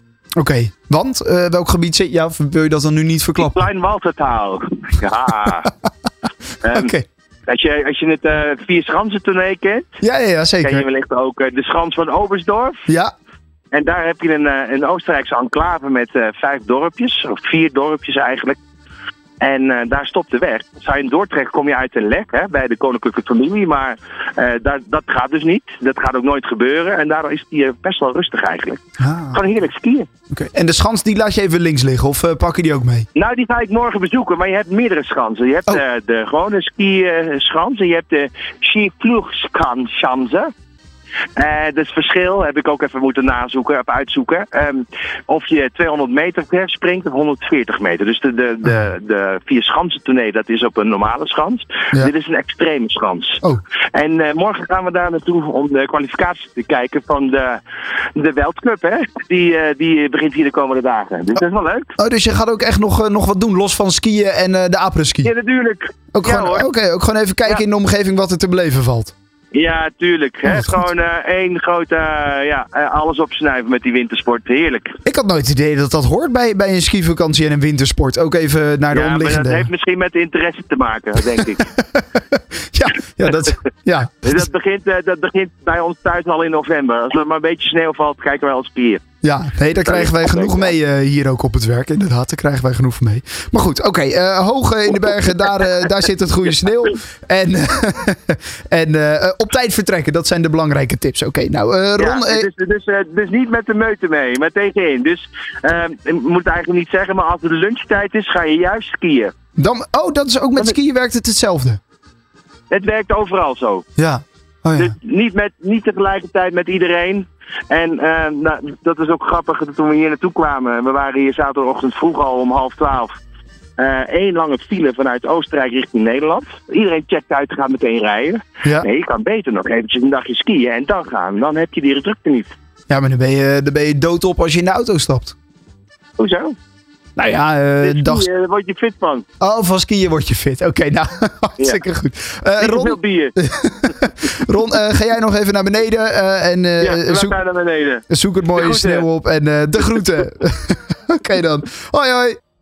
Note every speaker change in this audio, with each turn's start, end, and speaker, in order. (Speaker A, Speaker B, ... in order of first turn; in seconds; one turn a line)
Speaker A: 0.3-3.6
Speaker B: 3.4-5.7
Speaker B: 6.6-6.9
Speaker A: 6.7-7.0
Speaker B: 7.5-9.9
Speaker A: 10.0-10.8
Speaker B: 10.6-12.8
Speaker B: 13.7-18.6
Speaker B: 19.4-30.1
Speaker A: 29.0-29.4
Speaker A: 30.3-33.0
Speaker B: 33.1-40.5
Speaker B: 41.4-53.4
Speaker B: 53.9-57.6
Speaker B: 58.1-61.9
Speaker A: 62.0-65.3
Speaker B: 65.2-66.7
Speaker A: 66.1-69.1
Speaker B: 69.5-74.9
Speaker A: 70.5-70.8
Speaker A: 75.0-79.7
Speaker B: 78.9-81.7
Speaker A: 81.9-84.5
Speaker B: 84.2-89.0
Speaker A: 89.2-102.5
Speaker B: 89.8-90.7
Speaker B: 102.0-109.3
Speaker A: 109.6-111.8
Speaker B: 112.7-113.8
Speaker A: 114.0-114.9
Speaker B: 114.8-123.1
Speaker B: 123.8-132.5
Speaker A: 132.9-135.3
Speaker B: 136.2-136.5
Speaker A: 137.2-138.3
Speaker B: 137.8-139.2
Speaker A: 139.4-147.4
Speaker B: 142.6-143.3
Speaker B: 146.8-148.0
Speaker A: 148.1-152.4
Speaker B: 148.5-149.0